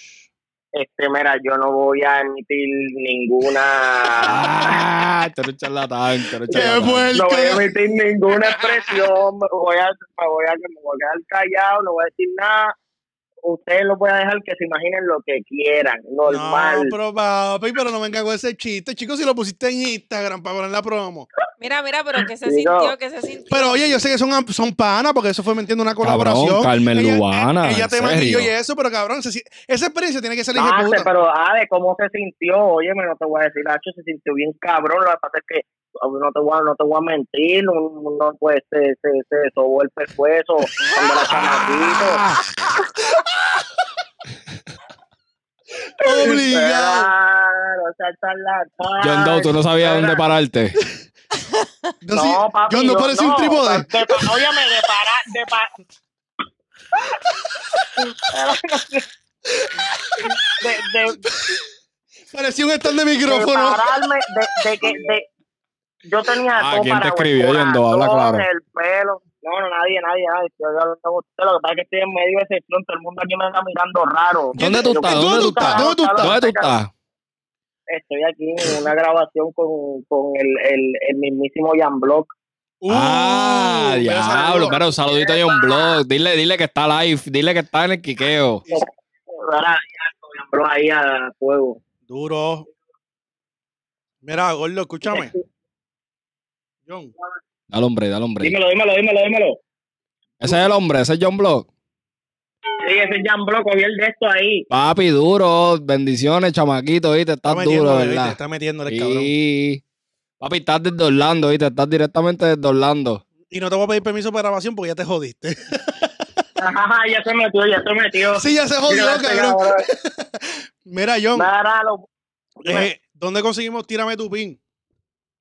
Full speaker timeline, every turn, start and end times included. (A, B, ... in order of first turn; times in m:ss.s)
0:00.7-0:04.8 A
0:04.1-0:07.1 B
0:06.5-0:07.7 C
0:06.5-0:12.7 A
0:08.5-0:08.9 B
0:13.4-0:16.9 A
0:16.2-0:21.3 C
0:21.6-0:23.9 D
0:22.4-0:22.9 A
0:23.5-0:31.1 C
0:26.0-0:28.5 B
0:30.5-0:42.2 A
0:41.3-0:42.4 B
0:46.0-0:47.1 C
0:46.0-0:50.2 A
0:49.0-0:50.8 B
0:52.0-0:54.4 C
0:52.1-0:55.7 A
0:58.1-0:59.0 A
0:59.6-1:01.6 C
1:00.6-1:01.2 A
1:02.3-1:05.0 C
1:03.2-1:05.2 A
1:06.0-1:16.8 A
1:06.5-1:08.4 B
1:14.5-1:16.4 C
1:14.5-1:16.9 B
1:17.9-1:22.3 A
1:22.8-1:24.8 C
1:22.9-1:28.6 B
1:24.6-1:26.0 A
1:28.7-1:31.8 A
1:32.1-1:32.7 C
1:34.2-1:35.3 C
1:35.1-1:35.4 A
1:36.8-1:37.1 C
1:37.7-1:38.5 B
1:38.4-1:39.6 A
1:40.4-1:41.7 B
1:42.8-1:44.6 A
1:44.7-1:49.8 B
1:47.4-1:49.3 C
1:50.4-1:53.2 B
1:53.5-1:56.1 C
1:56.6-1:59.8 A
1:58.3-2:01.5 C
2:01.3-2:02.0 A
2:02.6-2:04.6 C